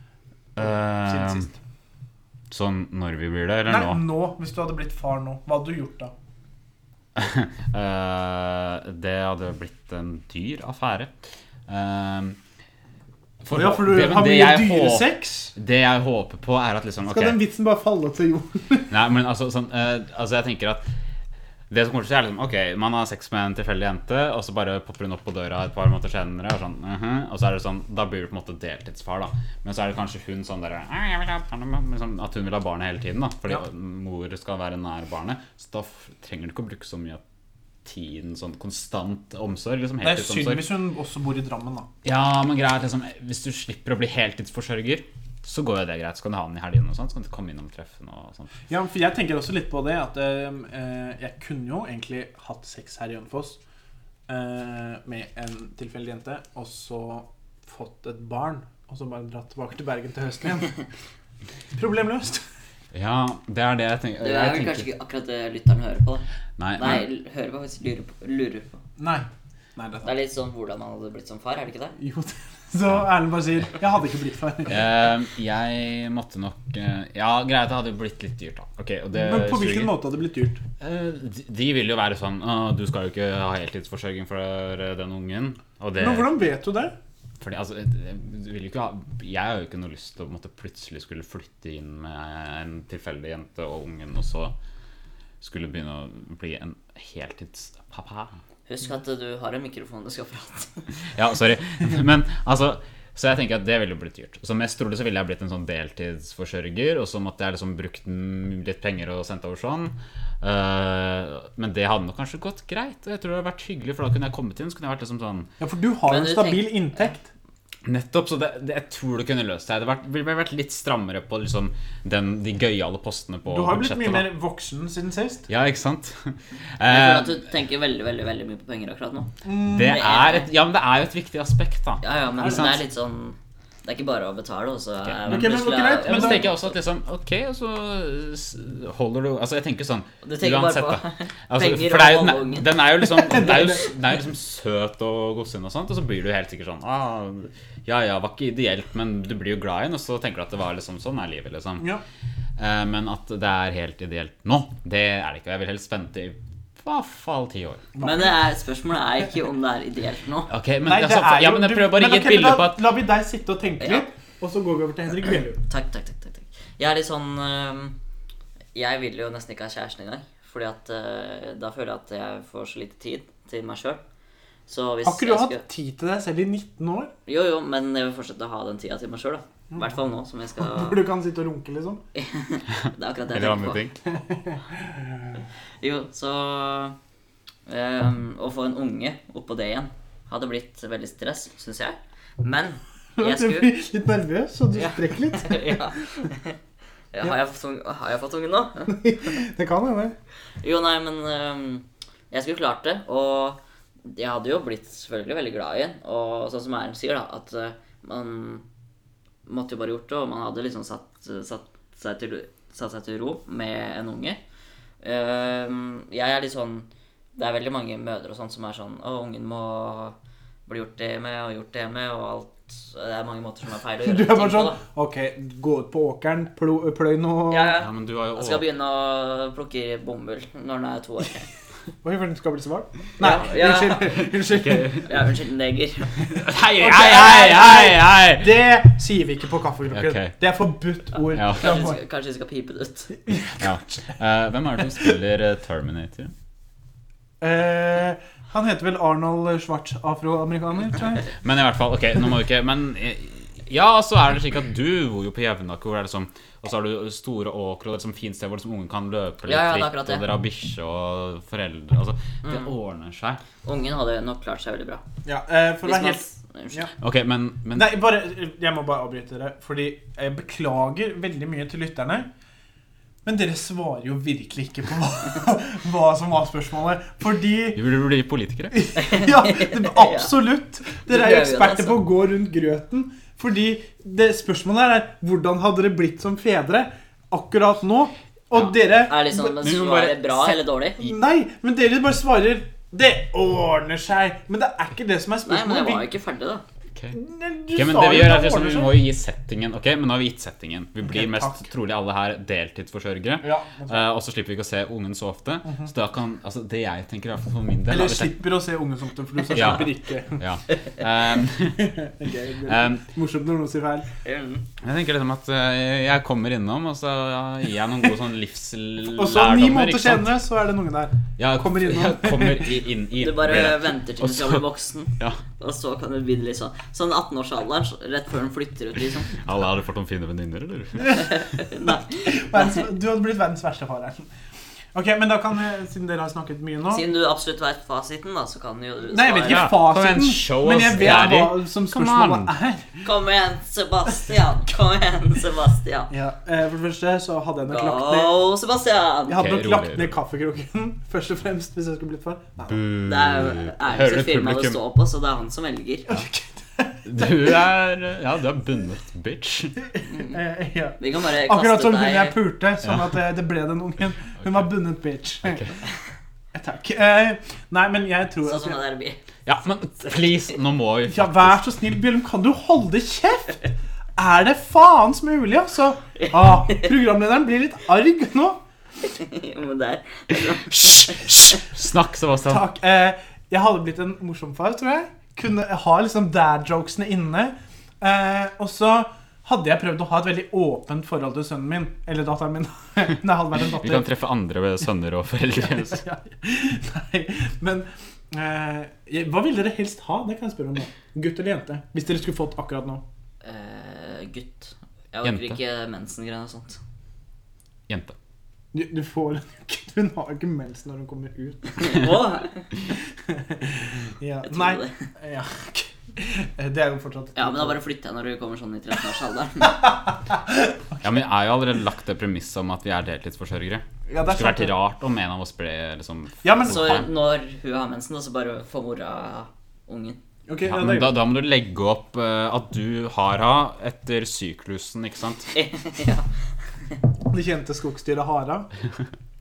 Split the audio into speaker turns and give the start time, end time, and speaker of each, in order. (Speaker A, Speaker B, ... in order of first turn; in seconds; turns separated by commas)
Speaker A: 0.6-1.5, Speaker B: 0.6-1.5, Speaker A: 2.5-4.0, Speaker B: 3.7-6.1, Speaker A: 7.2-11.1, Speaker A: 11.7-12.4, Speaker A: 13.4-17.4, Speaker B: 13.5-15.5, Speaker B: 17.1-18.9, Speaker A: 18.9-20.9, Speaker A: 21.7-37.2, Speaker A: 37.9-40.7, Speaker B: 40.0-41.9, Speaker A: 42.0-48.5, Speaker B: 48.7-53.6, Speaker B: 54.3-60.8, Speaker B: 61.8-62.4, Speaker A: 62.9-64.9, Speaker C: 64.2-66.2, Speaker A: 66.6-67.0, Speaker C: 66.8-68.8, Speaker B: 69.0-70.1, Speaker C: 70.0-72.0, Speaker B: 72.0-74.8, Speaker A: 74.7-80.0, Speaker B: 79.1-80.6, Speaker A: 80.8-86.3, Speaker B: 86.0-87.0, Speaker A: 87.4-94.5, Speaker A: 95.4-98.3, Speaker C: 98.7-100.9, Speaker A: 101.1-115.5, Speaker B: 115.6-117.3, Speaker C: 116.1-117.0, Speaker A: 117.8-124.3, Speaker B: 123.5-125.5, Speaker A: 125.5-127.4, Speaker C: 126.8-130.5, Speaker B: 129.4-130.0, Speaker A: 129.6-132.8, Speaker C: 132.0-136.6, Speaker A: 135.1-151.9, Speaker B: 135.3-136.5, Speaker C: 140.2-142.7, Speaker B: 143.2-143.9, Speaker A: 152.6-157.9, Speaker B: 158.0-158.3, Speaker C: 158.0-160.5, Speaker A: 160.5-162.8, Speaker B: 160.8-165.6, Speaker C: 163.8-164.1, Speaker C: 165.6-167.9, Speaker C: 168.8-174.0, Speaker C: 174.7-175.6, Speaker B: 175.0-177.1, Speaker C: 177.3-181.0, Speaker B: 180.6-182.0, Speaker C: 182.1-183.8, Speaker A: 183.3-184.0, Speaker B: 184.3-185.0, Speaker C: 185.8-187.0, Speaker C: 187.7-193.7, Speaker B: 193.2-195.8, Speaker C: 194.7-196.6, Speaker C: 197.1-199.0, Speaker B: 198.9-200.1, Speaker C: 200.6-208.6, Speaker C: 209.5-214.4, Speaker C: 215.0-220.2, Speaker C: 220.7-224.8, Speaker B: 224.1-227.8, Speaker C: 227.5-231.5, Speaker A: 227.8-228.6, Speaker B: 232.0-235.0, Speaker C: 233.2-234.2, Speaker A: 234.4-235.1, Speaker C: 235.1-236.4, Speaker A: 236.3-238.6, Speaker B: 236.7-242.0, Speaker A: 239.9-240.3, Speaker A: 241.3-241.8, Speaker C: 241.5-243.1, Speaker B: 243.3-243.6, Speaker A: 243.5-246.3, Speaker B: 247.4-251.3, Speaker A: 251.3-263.4, Speaker C: 259.5-260.2, Speaker C: 262.4-262.7, Speaker C: 263.6-265.0, Speaker B: 265.2-266.9, Speaker C: 265.8-266.9, Speaker A: 267.0-267.9, Speaker B: 267.7-272.3, Speaker B: 273.2-277.8, Speaker A: 277.8-278.9, Speaker B: 278.7-289.3, Speaker C: 279.0-280.3, Speaker C: 281.1-282.0, Speaker C: 289.1-291.1, Speaker A: 289.3-290.6, Speaker B: 291.0-296.1, Speaker C: 295.4-296.6, Speaker B: 297.1-299.1, Speaker A: 297.7-308.4, Speaker B: 301.1-301.6, Speaker B: 303.4-304.0, Speaker B: 307.9-310.4, Speaker A: 309.5-312.1, Speaker B: 311.8-314.1, Speaker A: 312.6-313.1, Speaker C: 314.2-314.6, Speaker A: 314.8-320.3, Speaker B: 319.1-322.7, Speaker A: 321.4-324.6, Speaker C: 323.2-329.3, Speaker A: 329.3-331.4, Speaker C: 331.1-332.6, Speaker B: 331.8-334.3, Speaker B: 334.9-337.1, Speaker C: 336.9-339.8, Speaker B: 339.1-343.0, Speaker A: 339.5-342.5, Speaker C: 343.0-346.1, Speaker B: 346.1-348.4, Speaker C: 347.6-349.5, Speaker B: 349.3-352.8, Speaker A: 349.3-350.1, Speaker A: 352.7-354.8, Speaker C: 353.0-356.2, Speaker B: 356.1-357.5, Speaker A: 357.1-359.8, Speaker B: 360.2-365.7, Speaker C: 361.0-362.4, Speaker B: 366.5-368.8, Speaker C: 368.4-369.2, Speaker A: 369.5-371.6, Speaker B: 371.1-378.6, Speaker C: 376.2-376.8, Speaker C: 379.1-381.5, Speaker A: 381.1-382.7, Speaker B: 382.5-394.1, Speaker A: 393.7-396.0, Speaker B: 395.6-403.0, Speaker C: 403.4-406.8, Speaker A: 405.2-405.6, Speaker A: 407.9-408.1, Speaker B: 408.7-412.1, Speaker C: 411.8-412.7, Speaker B: 413.3-417.8, Speaker C: 414.4-415.1, Speaker C: 417.4-419.9, Speaker B: 420.3-420.7, Speaker A: 421.0-427.1, Speaker B: 424.1-424.8, Speaker B: 426.4-427.0, Speaker C: 426.6-430.2, Speaker B: 430.5-431.2, Speaker A: 430.6-435.5, Speaker C: 435.5-436.3, Speaker B: 437.3-438.7